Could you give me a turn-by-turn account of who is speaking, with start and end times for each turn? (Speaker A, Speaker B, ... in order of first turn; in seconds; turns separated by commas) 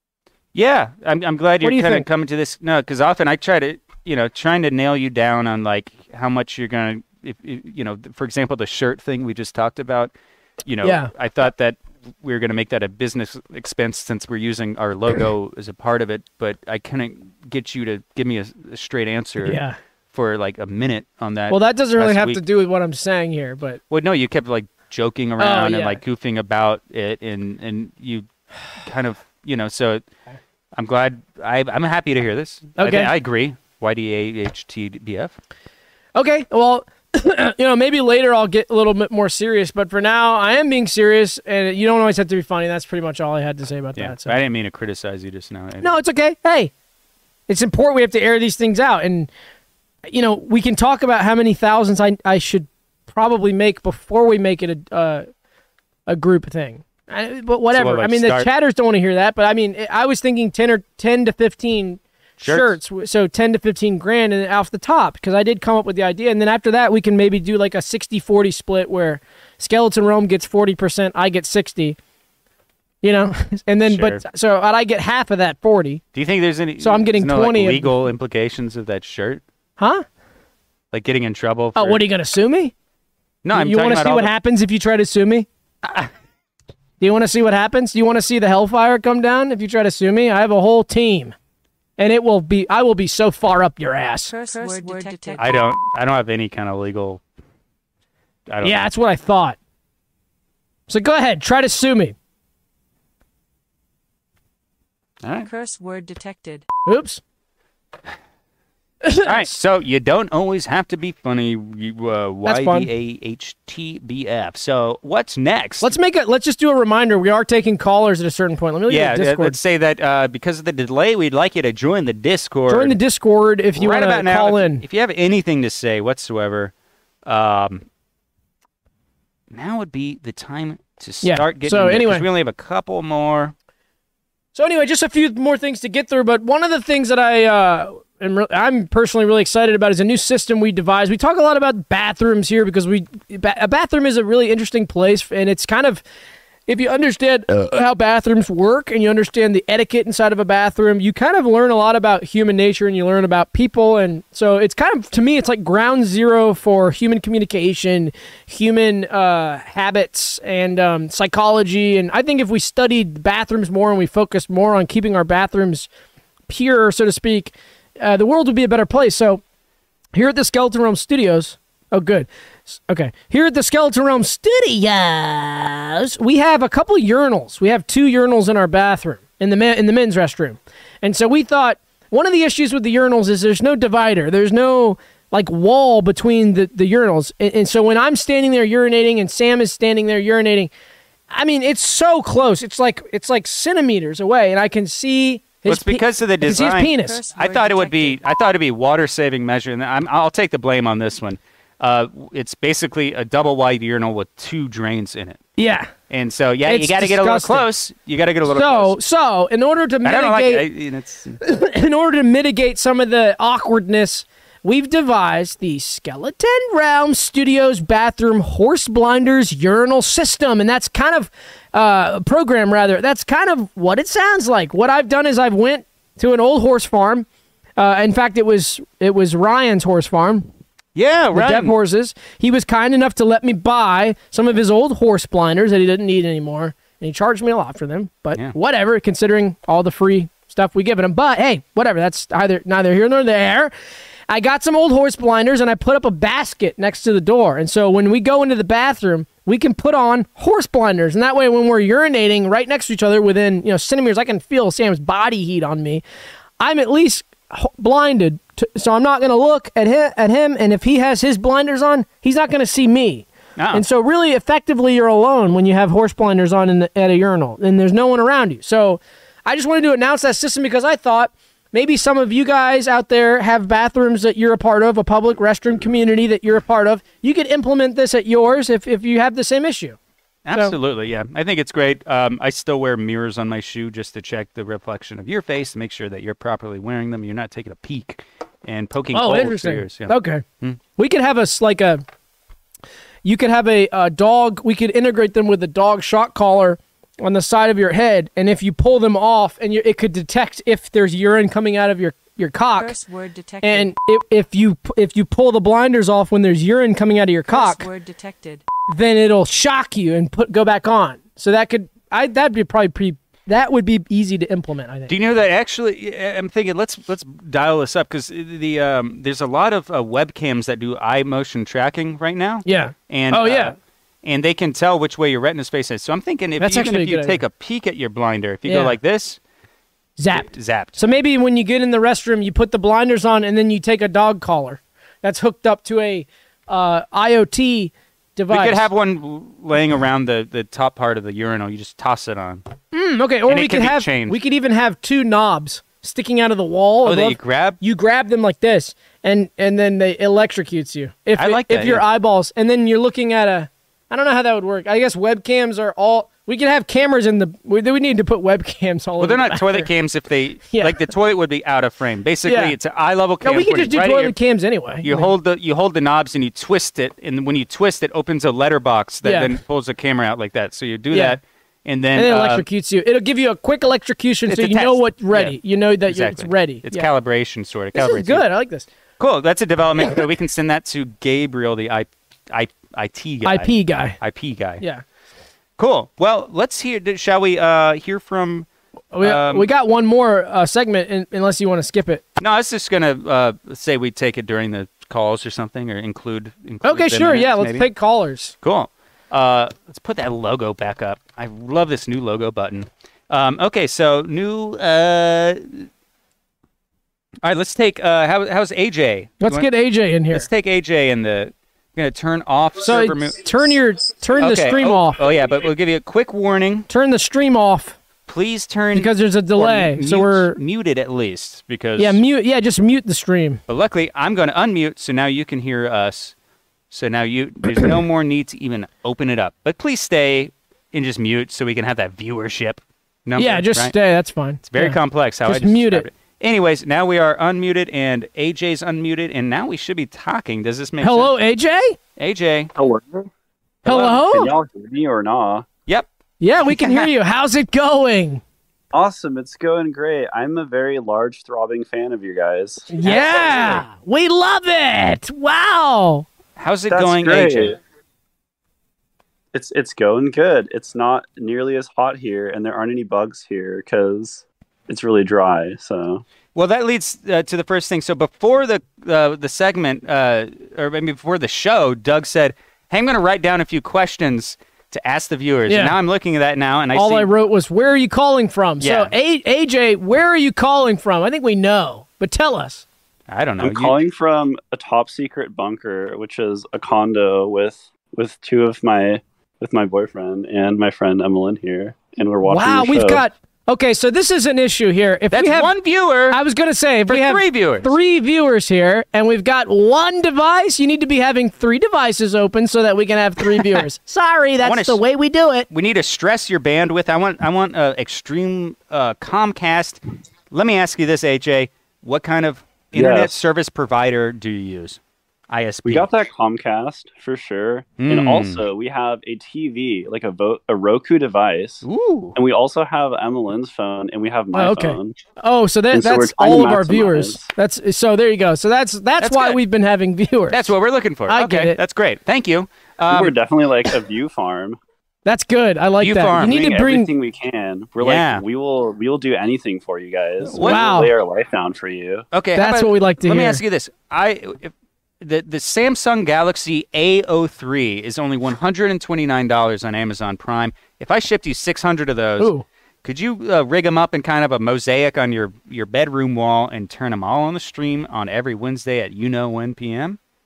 Speaker A: 0.5-10.1, Speaker B: 1.6-2.0, Speaker A: 10.6-19.6, Speaker B: 10.8-11.1, Speaker B: 19.4-19.8, Speaker A: 20.1-22.4, Speaker B: 21.5-23.8, Speaker A: 23.9-28.3, Speaker B: 25.4-26.0, Speaker A: 28.8-30.0, Speaker A: 30.7-35.3, Speaker B: 32.8-33.1, Speaker B: 36.1-44.3, Speaker A: 44.0-46.0, Speaker B: 45.8-46.7, Speaker B: 47.5-49.3, Speaker B: 50.1-55.2, Speaker B: 56.1-72.0, Speaker A: 57.7-58.5, Speaker A: 62.4-62.8, Speaker B: 73.0-76.0, Speaker A: 73.8-74.2, Speaker A: 76.1-79.4, Speaker B: 76.8-78.0, Speaker B: 79.8-80.0, Speaker A: 80.9-82.0, Speaker B: 81.8-82.7, Speaker A: 83.4-84.3, Speaker B: 83.5-85.5, Speaker B: 87.0-91.3, Speaker B: 92.0-94.3, Speaker C: 94.3-95.6, Speaker B: 94.9-95.2, Speaker A: 95.4-97.2, Speaker A: 98.5-98.8, Speaker B: 98.6-99.6, Speaker B: 100.9-102.1, Speaker A: 105.2-105.5, Speaker C: 105.4-106.7, Speaker B: 106.8-107.2, Speaker B: 109.0-109.5, Speaker A: 109.2-115.9, Speaker B: 112.4-112.9, Speaker B: 115.8-119.5, Speaker A: 118.9-123.0, Speaker B: 122.7-124.8, Speaker A: 123.8-126.7, Speaker A: 127.2-127.8, Speaker A: 129.5-133.5, Speaker B: 131.2-132.2, Speaker B: 134.5-146.0, Speaker B: 146.7-165.9, Speaker B: 166.5-169.4, Speaker B: 170.1-190.7, Speaker B: 191.3-197.2, Speaker A: 195.7-205.4, Speaker C: 196.8-198.2, Speaker B: 205.6-205.9, Speaker A: 206.1-209.0, Speaker B: 206.6-207.7, Speaker B: 208.5-210.7, Speaker A: 210.0-211.4, Speaker B: 211.4-227.2, Speaker B: 227.8-230.5, Speaker A: 230.9-231.7, Speaker B: 231.3-243.7, Speaker B: 244.3-256.0, Speaker B: 256.6-280.0, Speaker A: 263.6-263.8, Speaker A: 280.4-290.8, Speaker B: 289.1-290.4, Speaker B: 291.0-292.0, Speaker B: 293.2-302.9, Speaker C: 302.8-303.9, Speaker B: 303.6-307.9, Speaker C: 307.5-308.6, Speaker B: 308.9-315.1, Speaker A: 315.1-329.4, Speaker B: 322.6-323.7, Speaker B: 326.6-327.4, Speaker B: 328.6-328.9, Speaker B: 330.2-338.9, Speaker A: 330.3-331.0, Speaker A: 338.5-342.6, Speaker B: 342.9-359.9, Speaker A: 343.5-344.4, Speaker A: 347.0-347.8, Speaker A: 351.4-352.0, Speaker A: 359.2-364.3, Speaker B: 360.7-361.0, Speaker B: 362.4-362.8, Speaker B: 363.4-365.3, Speaker A: 365.0-372.6, Speaker B: 369.2-369.6, Speaker B: 371.1-371.4, Speaker B: 372.1-377.1, Speaker A: 374.5-378.4, Speaker B: 377.9-378.9, Speaker A: 379.2-384.8, Speaker B: 383.4-384.2, Speaker A: 385.8-388.7, Speaker B: 389.1-392.2, Speaker A: 389.2-389.7, Speaker A: 392.4-397.9, Speaker B: 396.8-398.5, Speaker A: 398.6-405.9, Speaker A: 407.4-409.7, Speaker B: 409.4-410.5, Speaker A: 410.3-413.4, Speaker B: 412.8-415.2, Speaker A: 414.4-416.9, Speaker B: 416.9-418.0, Speaker A: 418.3-422.2, Speaker B: 418.9-420.6, Speaker B: 422.0-423.6, Speaker A: 423.7-426.3, Speaker A: 426.9-433.9, Speaker B: 433.4-436.1, Speaker A: 434.6-441.3, Speaker B: 441.0-442.0, Speaker A: 442.2-442.7, Speaker D: 442.8-443.3, Speaker B: 443.8-444.5, Speaker D: 443.8-445.7, Speaker B: 446.4-448.4, Speaker A: 446.6-447.1, Speaker D: 448.9-453.3, Speaker B: 452.9-456.3, Speaker A: 453.0-453.9, Speaker A: 456.6-457.8, Speaker D: 456.9-457.8, Speaker D: 459.5-466.2, Speaker A: 466.5-477.3, Speaker B: 475.7-475.9, Speaker B: 476.9-482.8, Speaker A: 478.8-479.1, Speaker A: 483.3-483.9, Speaker D: 483.6-493.2, Speaker B: 492.4-495.7, Speaker A: 495.3-496.4, Speaker B: 496.3-505.7, Speaker A: 497.1-497.9, Speaker A: 504.6-505.0, Speaker A: 505.7-510.0, Speaker A: 510.5-516.1, Speaker D: 512.9-513.3, Speaker D: 515.9-525.1, Speaker A: 518.0-518.6, Speaker A: 521.8-522.4, Speaker B: 524.5-530.7, Speaker D: 525.9-527.5, Speaker A: 529.2-529.6, Speaker A: 530.5-533.3, Speaker B: 531.3-531.8, Speaker D: 533.1-534.8, Speaker B: 535.2-537.1, Speaker A: 536.0-536.6, Speaker D: 536.4-542.3, Speaker A: 538.0-538.4, Speaker A: 540.4-540.9, Speaker B: 540.6-541.1, Speaker A: 542.3-552.5, Speaker B: 542.5-543.6, Speaker B: 552.4-552.6, Speaker A: 553.0-560.2